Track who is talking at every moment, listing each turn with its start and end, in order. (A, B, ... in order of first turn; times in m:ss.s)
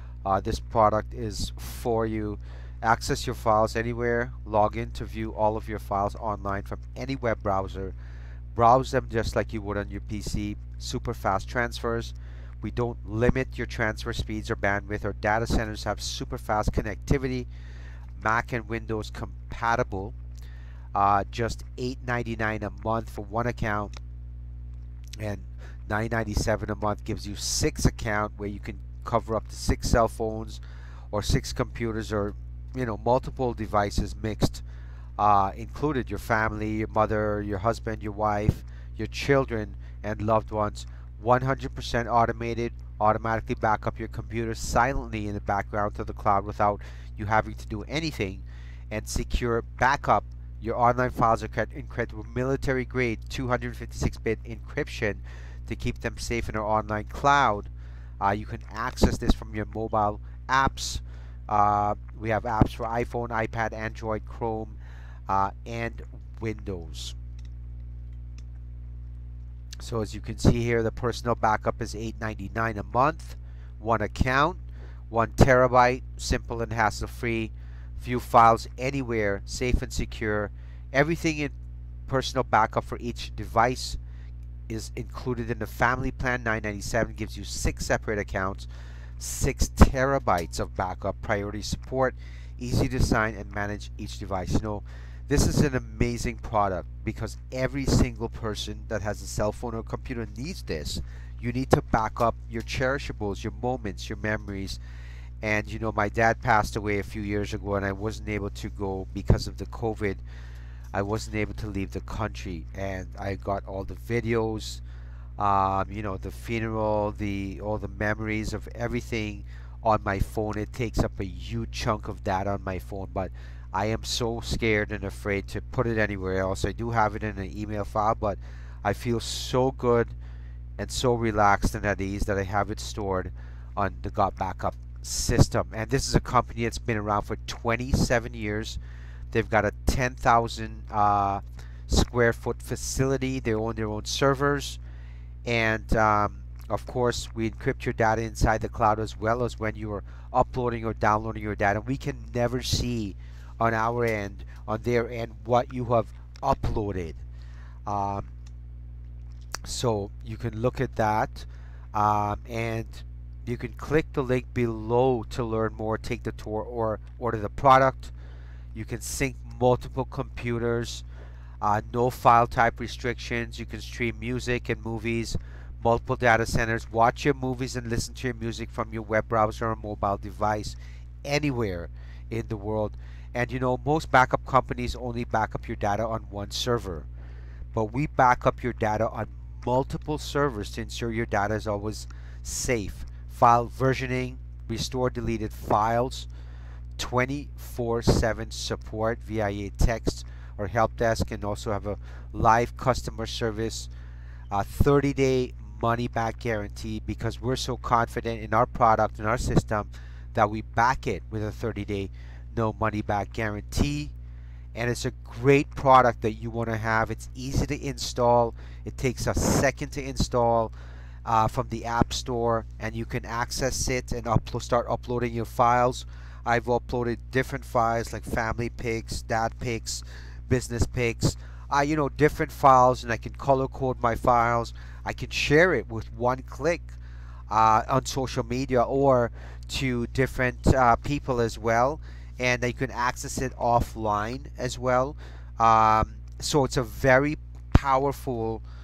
0:00.2-0:08.0 A
0:08.6-0:17.5 A
0:18.2-0:20.2 A
0:21.0-0:23.9 A
0:25.2-0:30.6 A
0:31.1-0:34.6 A
0:35.2-1:07.2 A
1:09.8-1:21.5 A
1:22.1-1:24.0 A
1:24.7-1:28.7 A
1:29.2-1:44.8 A
1:45.4-1:50.2 A
1:50.9-1:54.8 A
1:55.4-2:10.2 A
2:10.8-2:18.8 A
2:19.3-2:24.8 A
2:25.5-2:37.2 A
2:37.9-2:38.3 A
2:39.6-2:48.1 A
2:48.8-2:51.0 A
2:51.6-3:07.1 A
3:07.7-3:16.3 A
3:17.0-3:23.9 A
3:24.5-3:34.1 A
3:34.7-3:40.7 A
3:41.2-3:57.0 A
3:57.5-4:08.6 A